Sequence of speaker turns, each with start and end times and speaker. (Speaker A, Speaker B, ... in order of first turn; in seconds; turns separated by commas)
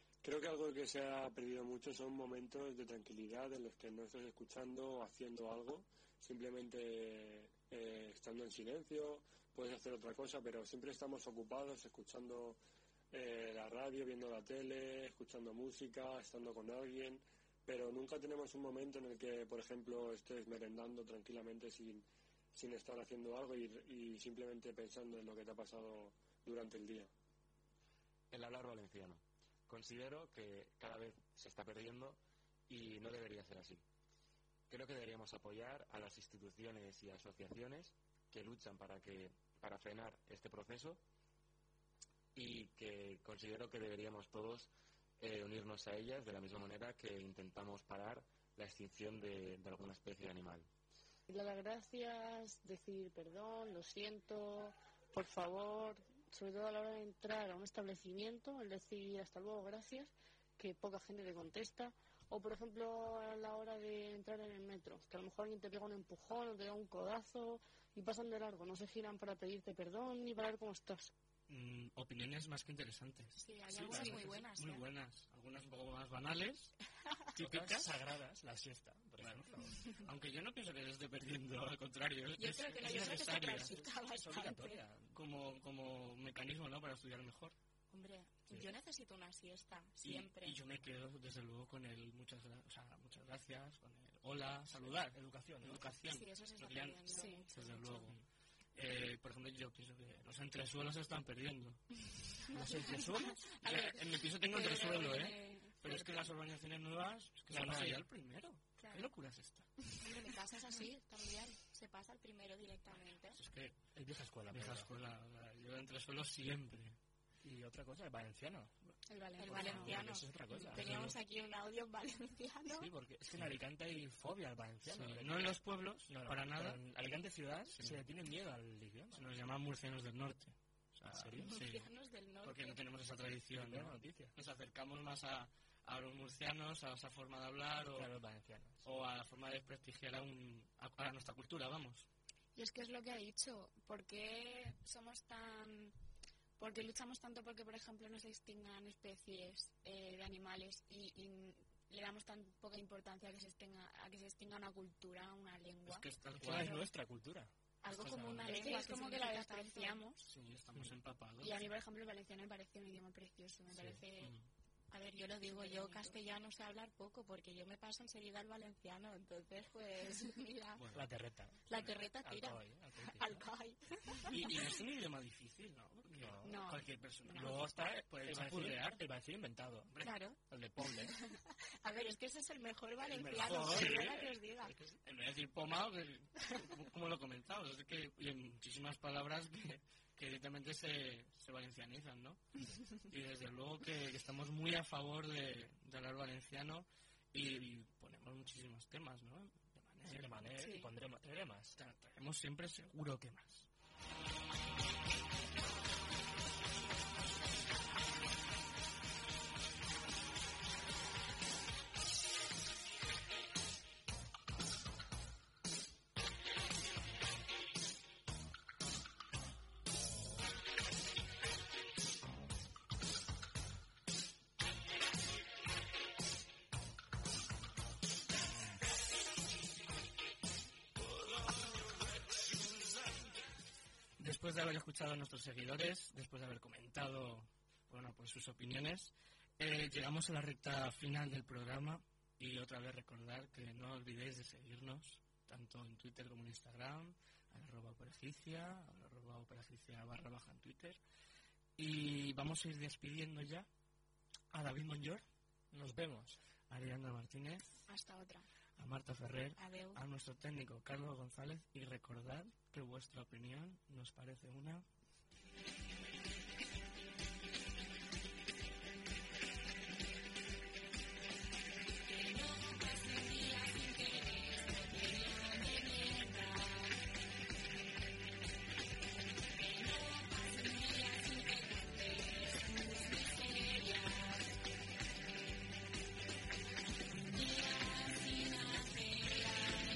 Speaker A: 0.2-12.6, Speaker A: 13.1-27.1, Speaker B: 28.3-33.8, Speaker B: 34.7-41.0, Speaker B: 42.4-50.7, Speaker C: 51.3-71.1, Speaker D: 71.5-76.7, Speaker E: 73.4-74.9, Speaker D: 77.3-77.9, Speaker F: 77.4-79.8, Speaker D: 79.2-83.7, Speaker E: 82.4-84.8, Speaker F: 82.8-85.2, Speaker D: 85.1-87.5, Speaker E: 87.9-90.6, Speaker D: 90.0-98.2, Speaker F: 94.7-96.0, Speaker E: 96.1-98.1, Speaker G: 96.8-97.5, Speaker D: 98.8-101.8, Speaker F: 102.5-103.5, Speaker G: 103.6-106.3, Speaker D: 103.6-109.7, Speaker F: 107.5-108.0, Speaker G: 108.8-109.1, Speaker E: 110.0-113.4, Speaker D: 113.3-113.8, Speaker F: 114.0-114.9, Speaker D: 114.5-117.0, Speaker F: 117.4-118.7, Speaker G: 119.1-120.0, Speaker E: 119.4-122.9, Speaker F: 119.5-121.2, Speaker F: 122.7-129.3, Speaker D: 124.9-126.8, Speaker D: 127.7-128.0, Speaker D: 129.1-131.9, Speaker F: 131.1-131.6, Speaker E: 131.4-132.8, Speaker D: 132.4-138.1, Speaker F: 133.5-134.3, Speaker F: 137.9-139.0, Speaker D: 138.8-142.1, Speaker G: 142.6-145.9, Speaker G: 146.6-156.7, Speaker D: 155.9-156.9, Speaker F: 156.4-158.7, Speaker E: 157.8-160.0, Speaker G: 158.5-160.3, Speaker D: 160.2-161.6, Speaker G: 161.4-164.3, Speaker F: 163.7-164.0, Speaker D: 164.2-164.5, Speaker E: 164.9-170.8, Speaker G: 165.0-166.2, Speaker D: 170.8-171.0, Speaker F: 170.9-173.5, Speaker E: 171.7-174.3, Speaker D: 174.3-179.0, Speaker F: 176.1-176.8, Speaker G: 176.4-177.6, Speaker F: 177.3-181.2, Speaker E: 180.0-180.4, Speaker E: 181.8-184.8, Speaker D: 183.1-184.3, Speaker F: 183.4-185.0, Speaker D: 185.0-192.4, Speaker D: 193.1-200.5, Speaker F: 200.1-201.8, Speaker D: 201.8-203.7, Speaker D: 234.2-251.0, Speaker D: 251.8-253.7, Speaker D: 254.5-255.2, Speaker F: 255.7-256.4, Speaker D: 256.7-257.6, Speaker G: 257.9-258.5, Speaker D: 258.8-264.8, Speaker E: 259.6-260.0, Speaker G: 272.4-273.8, Speaker G: 274.8-276.5, Speaker G: 280.3-284.0, Speaker G: 288.7-289.3